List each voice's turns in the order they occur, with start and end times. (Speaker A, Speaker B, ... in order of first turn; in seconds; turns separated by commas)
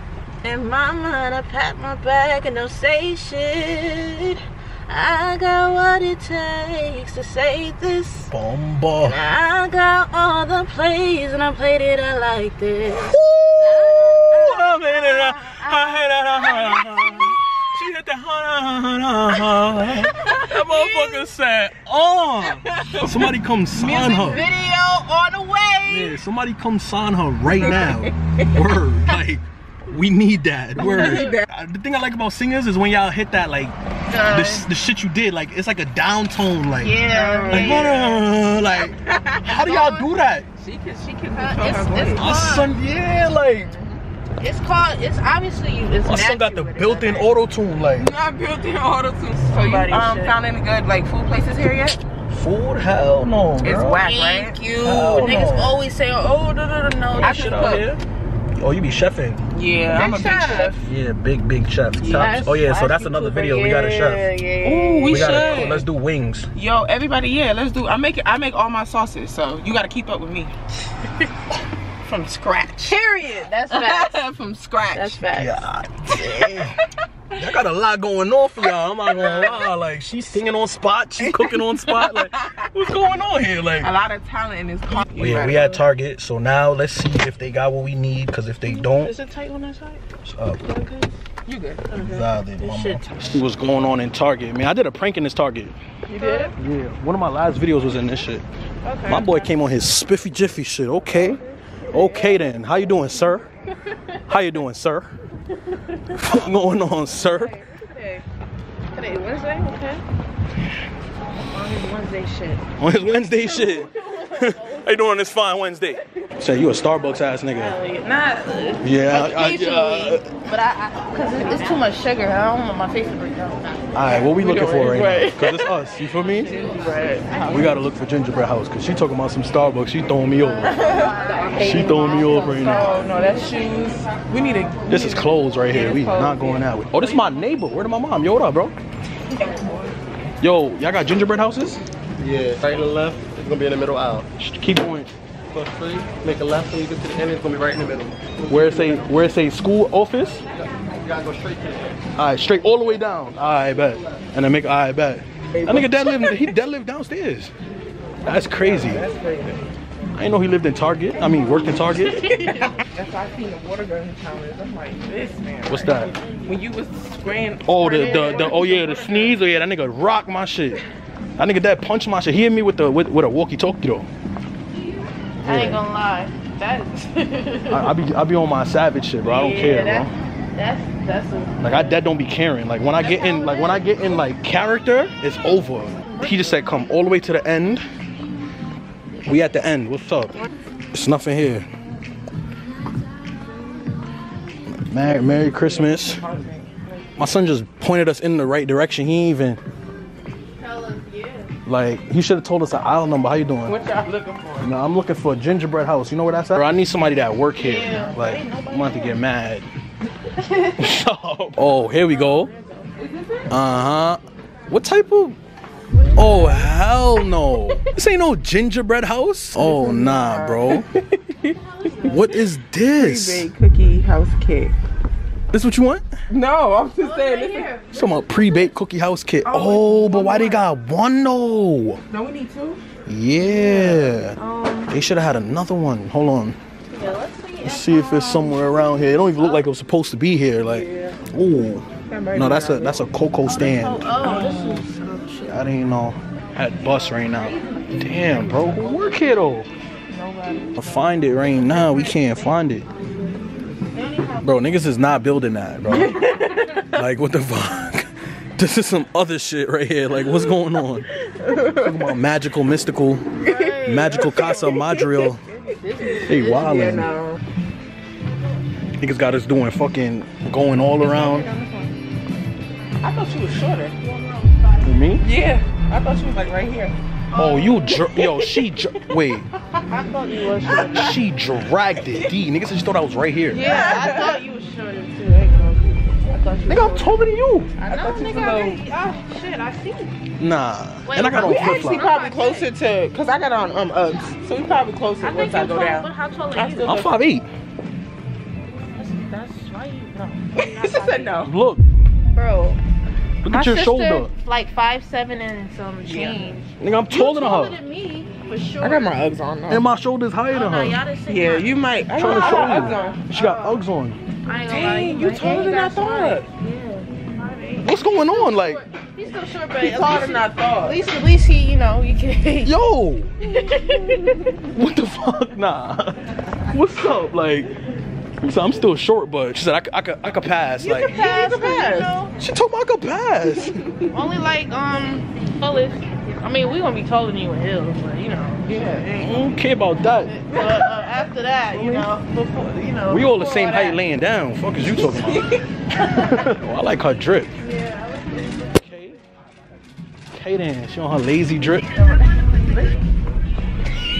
Speaker A: 0.4-8.3, Speaker B: 8.3-9.2, Speaker A: 9.0-17.4, Speaker B: 13.0-24.4, Speaker A: 20.5-21.3, Speaker C: 22.6-23.3, Speaker A: 23.8-26.2, Speaker C: 23.8-24.4, Speaker B: 25.9-33.7, Speaker C: 27.5-28.5, Speaker C: 30.8-31.4, Speaker A: 30.9-31.3, Speaker A: 34.1-34.7, Speaker B: 34.3-40.5, Speaker A: 36.8-38.2, Speaker C: 37.1-38.0, Speaker C: 39.0-39.6, Speaker A: 39.5-40.1, Speaker C: 40.6-42.2, Speaker A: 41.3-42.7, Speaker B: 42.1-43.7, Speaker C: 43.7-44.0, Speaker A: 44.4-47.3, Speaker B: 46.0-48.1, Speaker C: 48.0-52.0, Speaker A: 49.5-50.3, Speaker B: 52.3-54.0, Speaker C: 53.6-55.5, Speaker A: 54.0-57.8, Speaker B: 54.8-55.8, Speaker B: 57.1-58.0, Speaker C: 57.2-57.9, Speaker B: 58.5-59.4, Speaker C: 59.5-60.9, Speaker A: 59.9-60.8, Speaker B: 60.8-64.3, Speaker C: 62.0-62.4, Speaker A: 62.1-65.8, Speaker C: 64.6-65.8, Speaker B: 65.1-66.5, Speaker C: 66.5-70.5, Speaker C: 72.0-73.0, Speaker A: 72.8-74.2, Speaker C: 73.7-75.2, Speaker A: 74.9-75.7, Speaker B: 75.3-76.8, Speaker C: 76.2-76.5, Speaker B: 77.3-83.9, Speaker C: 79.1-79.6, Speaker C: 81.2-82.6, Speaker C: 83.8-85.8, Speaker B: 84.9-89.1, Speaker A: 88.6-90.0, Speaker B: 90.2-90.6, Speaker A: 90.6-91.1, Speaker C: 91.5-91.9, Speaker A: 91.9-93.4, Speaker B: 91.9-95.7, Speaker C: 96.1-96.5, Speaker A: 96.1-96.5, Speaker B: 96.6-98.4, Speaker A: 98.8-99.5, Speaker B: 99.0-103.5, Speaker A: 101.9-102.5, Speaker B: 104.3-105.1, Speaker B: 106.1-107.6, Speaker A: 107.2-108.2, Speaker A: 108.9-110.0, Speaker A: 111.5-112.6, Speaker B: 112.8-117.8, Speaker A: 113.5-115.0, Speaker A: 117.5-124.2, Speaker B: 118.8-120.3, Speaker B: 123.9-126.5, Speaker C: 124.2-125.3, Speaker A: 124.8-125.9, Speaker C: 126.4-127.5, Speaker A: 126.6-127.8, Speaker B: 127.5-130.8, Speaker C: 130.6-136.7, Speaker A: 130.6-133.6, Speaker B: 131.6-132.9, Speaker B: 134.9-138.7, Speaker C: 139.4-139.9, Speaker B: 140.4-141.8, Speaker D: 142.2-144.2, Speaker B: 144.4-145.1, Speaker D: 145.5-148.9, Speaker B: 148.5-150.4, Speaker D: 151.0-151.8, Speaker B: 152.2-157.5, Speaker C: 155.5-156.5, Speaker B: 158.2-159.1, Speaker C: 158.6-159.7, Speaker B: 160.1-162.5, Speaker C: 161.2-169.4, Speaker A: 162.0-162.7, Speaker B: 165.7-166.1, Speaker B: 167.7-170.8, Speaker A: 167.8-168.6, Speaker B: 171.4-174.1, Speaker B: 175.4-175.8, Speaker A: 175.4-177.9, Speaker B: 177.7-180.1, Speaker A: 179.2-182.0, Speaker B: 181.6-187.8, Speaker A: 183.0-184.2, Speaker A: 186.1-186.7, Speaker B: 189.2-190.3, Speaker B: 190.9-191.7, Speaker B: 194.9-196.2, Speaker C: 195.0-197.1, Speaker B: 197.2-199.6, Speaker A: 200.6-201.6, Speaker B: 201.7-203.8, Speaker C: 203.6-204.7, Speaker B: 204.6-209.7, Speaker A: 207.6-209.2, Speaker A: 210.4-210.9, Speaker B: 210.8-212.5, Speaker A: 211.9-212.9, Speaker C: 213.0-213.5, Speaker B: 213.5-215.4, Speaker A: 215.9-216.7, Speaker B: 216.2-220.8, Speaker C: 219.6-222.2, Speaker A: 221.8-222.2, Speaker B: 222.0-223.5, Speaker C: 222.9-224.7, Speaker B: 225.5-226.0, Speaker C: 226.3-227.7, Speaker A: 227.0-228.7, Speaker B: 227.9-232.0, Speaker C: 229.4-230.6, Speaker C: 232.1-232.8, Speaker B: 233.1-234.4, Speaker C: 233.4-234.2, Speaker A: 234.3-234.9, Speaker B: 234.9-236.6, Speaker A: 236.9-239.6, Speaker B: 237.6-244.2, Speaker C: 240.7-241.1, Speaker C: 242.1-243.1, Speaker A: 243.5-245.6, Speaker C: 244.2-244.8, Speaker B: 245.5-249.7, Speaker A: 247.2-248.8, Speaker C: 250.1-250.7, Speaker A: 250.3-250.7, Speaker B: 250.8-252.8, Speaker A: 252.0-252.3, Speaker A: 253.9-254.5, Speaker B: 254.4-256.2, Speaker C: 255.9-256.9, Speaker B: 256.9-261.1, Speaker C: 261.2-262.2, Speaker B: 261.8-263.3, Speaker A: 263.4-264.8, Speaker C: 263.4-267.4, Speaker B: 263.8-265.4, Speaker A: 265.9-267.1, Speaker B: 266.3-267.1, Speaker B: 269.0-271.5, Speaker C: 271.0-271.9, Speaker C: 273.0-274.1, Speaker A: 274.1-274.9, Speaker B: 274.8-275.2, Speaker C: 275.2-279.0, Speaker B: 277.3-279.5, Speaker A: 277.4-277.8, Speaker A: 279.9-281.2, Speaker C: 280.7-281.0, Speaker B: 280.9-283.8, Speaker C: 282.0-282.3, Speaker A: 283.5-287.2, Speaker C: 283.5-284.3, Speaker B: 286.7-287.7, Speaker A: 287.8-290.1, Speaker C: 287.8-288.8, Speaker B: 290.4-292.0, Speaker A: 291.0-292.7, Speaker C: 291.3-297.1, Speaker A: 295.2-297.0, Speaker B: 296.8-297.5, Speaker A: 298.9-301.5, Speaker C: 300.6-301.5, Speaker B: 301.4-301.8, Speaker A: 302.3-302.8, Speaker B: 303.4-304.3, Speaker A: 303.5-309.1, Speaker C: 306.0-306.6, Speaker B: 306.8-307.8, Speaker C: 308.8-309.8, Speaker B: 309.7-311.0, Speaker A: 310.5-313.8, Speaker C: 311.3-313.2, Speaker B: 312.2-314.2, Speaker A: 314.4-322.8, Speaker C: 314.6-316.5, Speaker B: 317.8-318.8, Speaker C: 319.7-321.0, Speaker B: 322.6-323.3, Speaker A: 323.4-324.5, Speaker C: 323.6-324.5, Speaker B: 324.7-327.7, Speaker B: 328.4-331.2, Speaker C: 330.8-332.2, Speaker A: 331.0-332.3, Speaker B: 332.4-333.8, Speaker C: 333.4-334.1, Speaker A: 334.1-344.0, Speaker C: 338.7-339.1, Speaker B: 339.2-340.3, Speaker C: 340.5-340.9, Speaker C: 341.7-342.1, Speaker B: 343.1-345.5, Speaker C: 344.9-345.6, Speaker B: 346.0-347.5, Speaker A: 347.6-348.8, Speaker B: 348.8-349.2, Speaker B: 350.3-351.9, Speaker A: 351.9-353.0